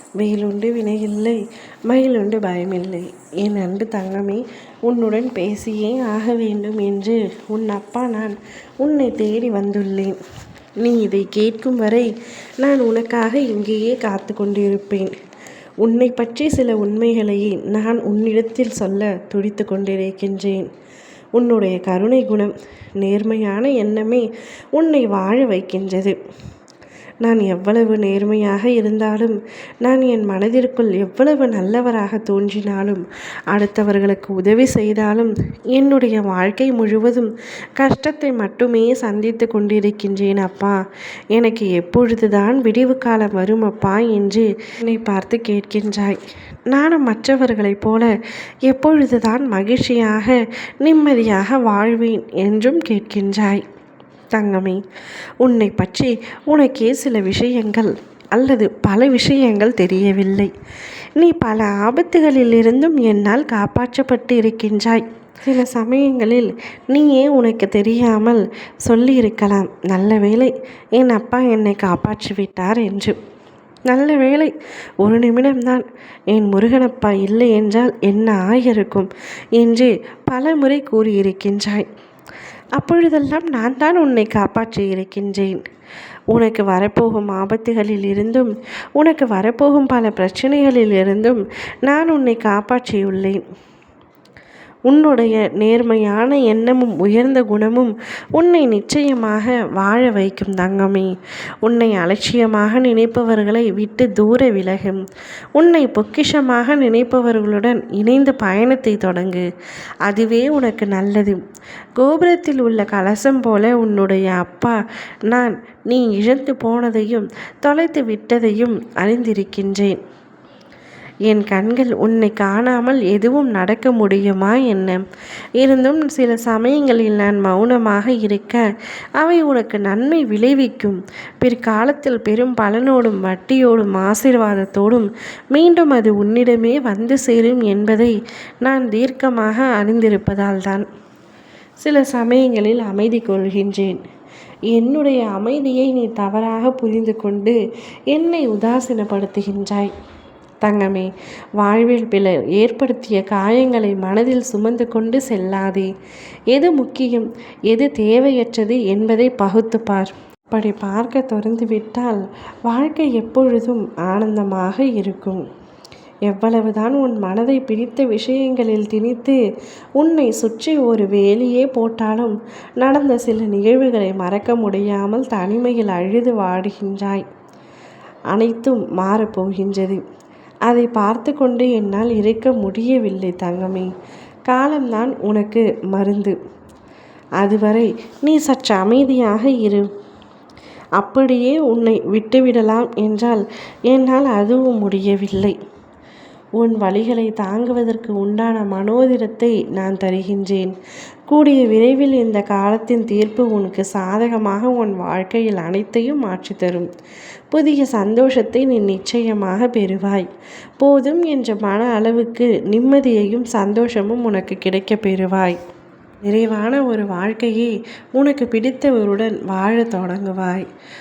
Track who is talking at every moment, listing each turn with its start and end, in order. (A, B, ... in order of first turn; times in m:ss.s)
0:00.2-0:10.2 A
0:10.8-0:15.1 A
0:15.8-0:20.7 A
0:21.4-0:26.2 A
0:27.2-0:40.8 A
0:41.3-0:46.2 A
0:46.7-0:48.1 A
0:48.7-0:53.6 A
0:54.3-0:54.8 A
0:55.4-1:00.5 A
1:01.2-1:13.2 A
1:13.9-1:21.9 A
1:22.8-1:25.6 A
1:26.3-1:33.4 A
1:34.9-1:41.1 A
1:41.6-1:45.0 A
1:45.6-1:49.5 A
1:50.0-1:51.4 A
1:52.0-1:54.8 A
1:55.3-2:00.0 A
2:01.3-2:05.0 A
2:05.6-2:20.9 A
2:21.8-2:24.0 A
2:24.7-2:27.6 A
2:28.1-2:29.9 A
2:30.6-2:35.9 A
2:36.5-2:45.4 A
2:46.3-2:49.4 A
2:50.0-2:57.2 A
2:58.3-3:00.0 A
3:00.7-3:03.9 A
3:04.5-3:06.4 A
3:07.4-3:09.9 A
3:11.0-3:15.6 A
3:16.6-3:20.7 A
3:21.3-3:26.9 A
3:27.5-3:30.3 A
3:30.8-3:35.6 A
3:36.2-3:40.7 A